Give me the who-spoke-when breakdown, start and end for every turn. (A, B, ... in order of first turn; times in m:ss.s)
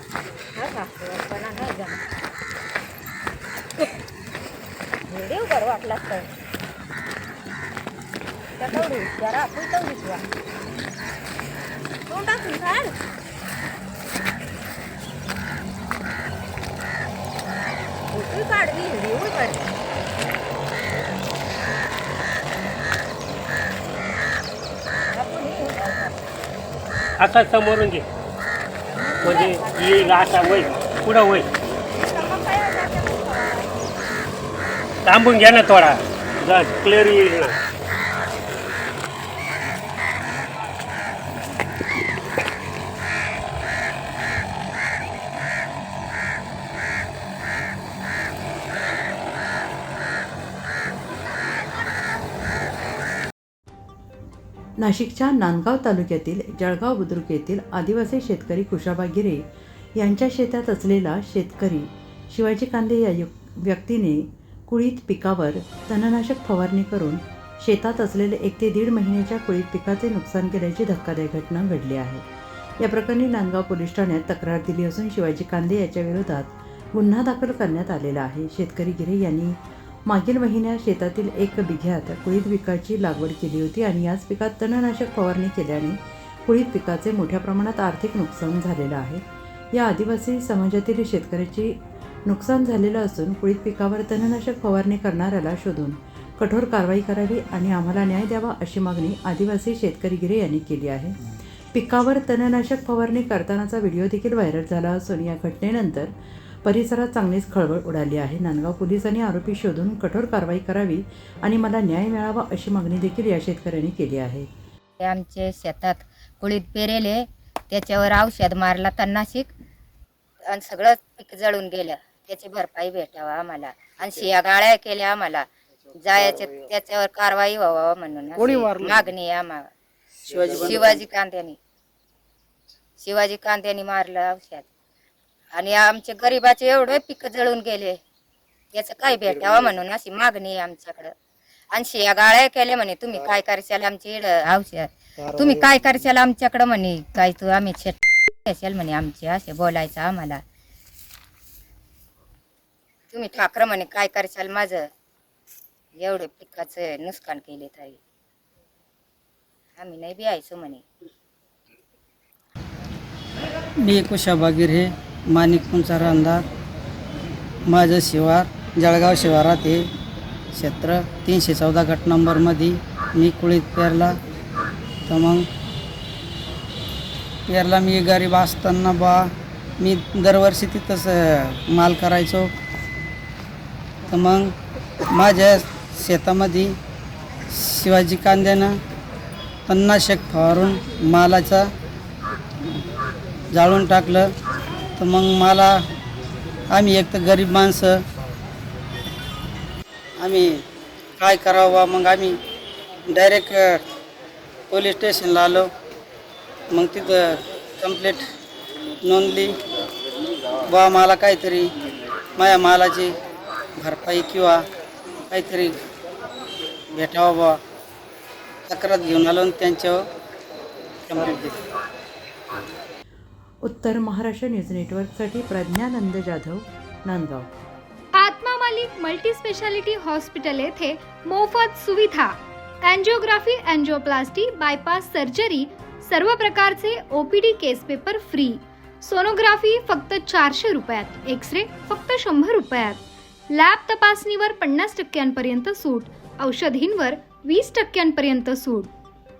0:00.6-0:01.9 A
0:05.1-0:06.2 A
0:08.6-0:10.1 A
0:12.2-0:12.5 A
0:19.0-0:19.3 A
0:25.2-0:26.0 A
0:27.2-0:28.0 B
0:29.2-0:31.5 B
0:29.4-0:30.1 A
0:32.5-0:33.3 A
0:35.0-0:37.6 B
0:54.8-0:59.4 C
1:00.0-1:12.2 C
1:12.8-1:41.2 C
1:41.7-1:46.1 C
1:46.6-1:54.5 C
1:55.0-1:59.5 A
2:00.5-2:09.7 A
2:08.4-2:09.0 D
2:10.3-2:10.9 D
2:10.4-2:11.6 A
2:13.0-2:14.7 A
2:15.6-2:18.0 A
2:18.7-2:21.1 A
2:21.7-2:30.4 A
2:33.1-2:34.9 A
2:36.0-2:38.0 A
2:39.8-2:40.8 A
2:43.8-2:46.4 D
2:47.7-2:49.8 D
2:50.5-2:54.1 D
2:55.1-2:55.4 D
2:57.5-3:02.5 D
3:04.1-3:04.5 D
3:05.1-3:06.7 D
3:07.5-3:08.7 D
3:09.7-3:11.7 D
3:13.5-3:14.3 D
3:15.0-3:15.7 D
3:16.7-3:18.0 D
3:20.2-3:20.6 D
3:21.2-3:22.4 D
3:23.1-3:23.8 D
3:24.7-3:25.7 D
3:26.7-3:28.2 D
3:29.0-3:29.6 D
3:30.7-3:31.7 D
3:32.4-3:33.1 D
3:33.8-3:34.6 D
3:35.3-3:35.7 D
3:36.9-3:37.6 D
3:38.7-3:40.0 D
3:41.1-3:41.5 D
3:43.6-3:47.5 C
3:48.2-4:08.9 E